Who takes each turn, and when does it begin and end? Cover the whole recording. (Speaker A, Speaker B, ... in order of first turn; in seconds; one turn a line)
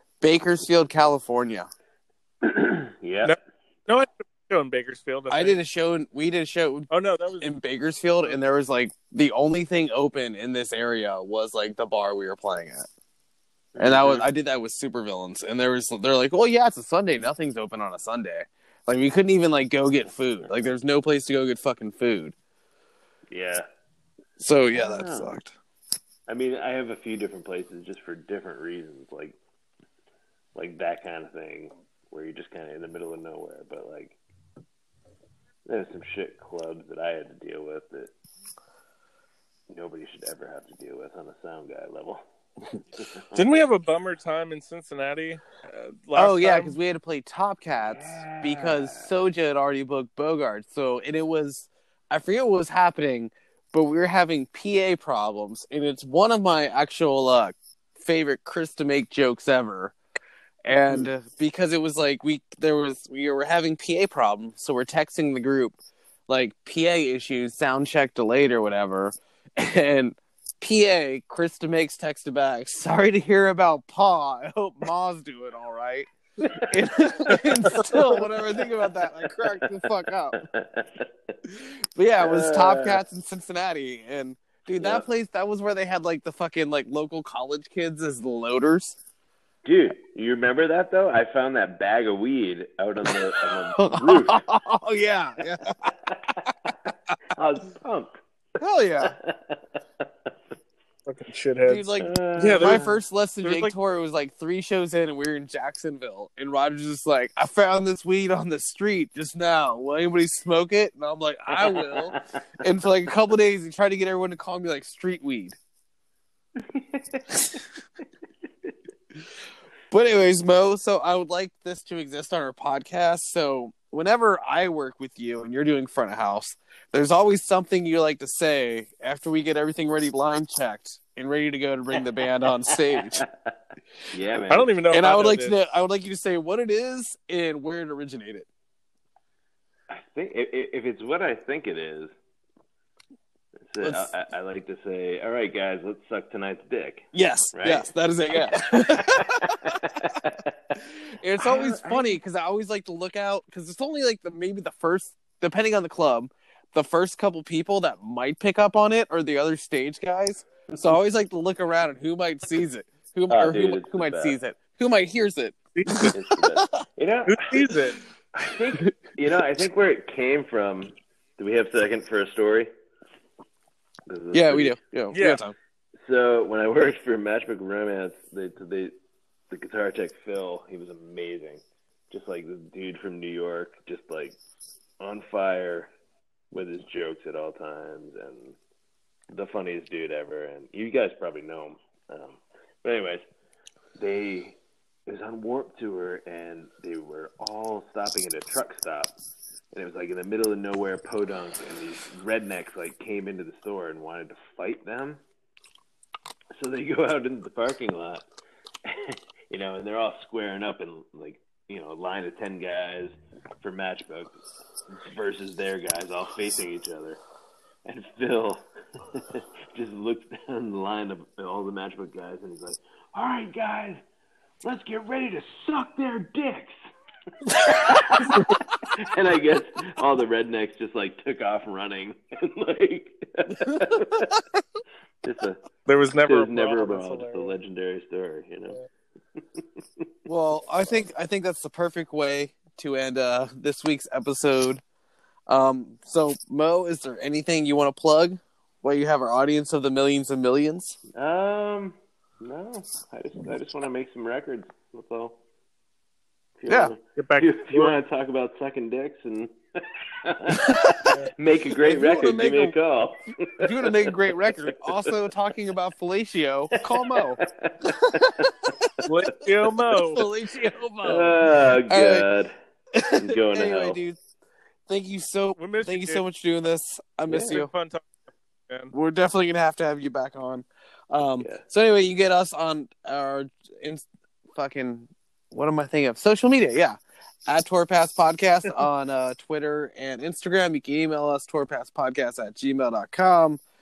Speaker A: 0.2-1.7
Speaker B: 2.4-3.4
Speaker C: 3.2-5.6
Speaker A: 5.3-6.9
Speaker C: 6.9-7.5
Speaker A: 7.4-12.9
Speaker B: 13.7-14.2
Speaker A: 13.8-22.3
Speaker B: 23.3-23.6
Speaker A: 24.4-25.5
Speaker B: 24.7-25.4
Speaker B: 26.3-29.4
Speaker B: 30.5-34.2
Speaker B: 35.6-38.1
Speaker B: 39.7-42.2
Speaker B: 42.9-43.6
Speaker C: 43.4-46.7
Speaker A: 46.1-59.9
Speaker B: 47.8-49.1
Speaker A: 60.6-65.8
Speaker A: 66.3-76.1
Speaker B: 76.4-81.3
Speaker A: 76.7-80.4
Speaker A: 81.5-89.0
Speaker B: 82.2-83.0
Speaker B: 84.8-85.1
Speaker B: 89.6-94.4
Speaker A: 93.8-95.9
Speaker B: 95.9-98.1
Speaker A: 98.6-99.1
Speaker B: 99.0-99.6
Speaker C: 101.0-102.9
Speaker A: 101.6-115.5
Speaker B: 102.0-103.0
Speaker C: 103.4-103.7
Speaker B: 111.6-112.2
Speaker B: 116.6-117.6
Speaker A: 117.3-117.6
Speaker A: 119.9-133.2
Speaker B: 132.7-133.5
Speaker B: 134.1-134.7
Speaker C: 134.5-135.5
Speaker A: 134.9-138.5
Speaker B: 139.9-142.1
Speaker B: 143.7-150.5
Speaker A: 143.8-144.1
Speaker A: 147.1-166.8
Speaker B: 151.4-152.1
Speaker B: 163.3-164.4
Speaker C: 165.7-166.1
Speaker B: 166.1-167.5
Speaker C: 167.3-168.0
Speaker B: 168.3-172.7
Speaker B: 174.1-174.8
Speaker A: 174.3-175.5
Speaker C: 175.1-175.4
Speaker B: 176.0-178.9
Speaker B: 179.5-184.4
Speaker B: 185.0-185.9
Speaker B: 186.5-188.6
Speaker B: 189.3-193.2
Speaker B: 194.0-199.1
Speaker B: 199.7-205.2
Speaker B: 206.5-208.2
Speaker B: 208.9-214.4
Speaker B: 214.9-217.2
Speaker B: 217.9-224.0
Speaker B: 224.6-226.7
Speaker A: 227.5-228.6
Speaker B: 227.5-234.4
Speaker B: 235.2-235.6
Speaker C: 235.9-237.6
Speaker B: 236.2-238.8
Speaker B: 239.6-240.0
Speaker A: 240.3-244.8
Speaker A: 245.5-251.0
Speaker B: 251.2-255.4
Speaker B: 256.6-265.2
Speaker C: 257.1-257.9
Speaker A: 260.6-261.0
Speaker A: 261.8-262.7
Speaker A: 263.6-269.1
Speaker B: 266.9-268.7
Speaker C: 269.1-270.2
Speaker A: 269.9-271.4
Speaker B: 271.0-272.5
Speaker A: 271.9-272.2
Speaker A: 272.9-274.2
Speaker B: 273.1-274.0
Speaker A: 274.9-277.7
Speaker C: 275.6-276.2
Speaker B: 277.3-277.6
Speaker C: 277.4-278.1
Speaker A: 278.9-293.6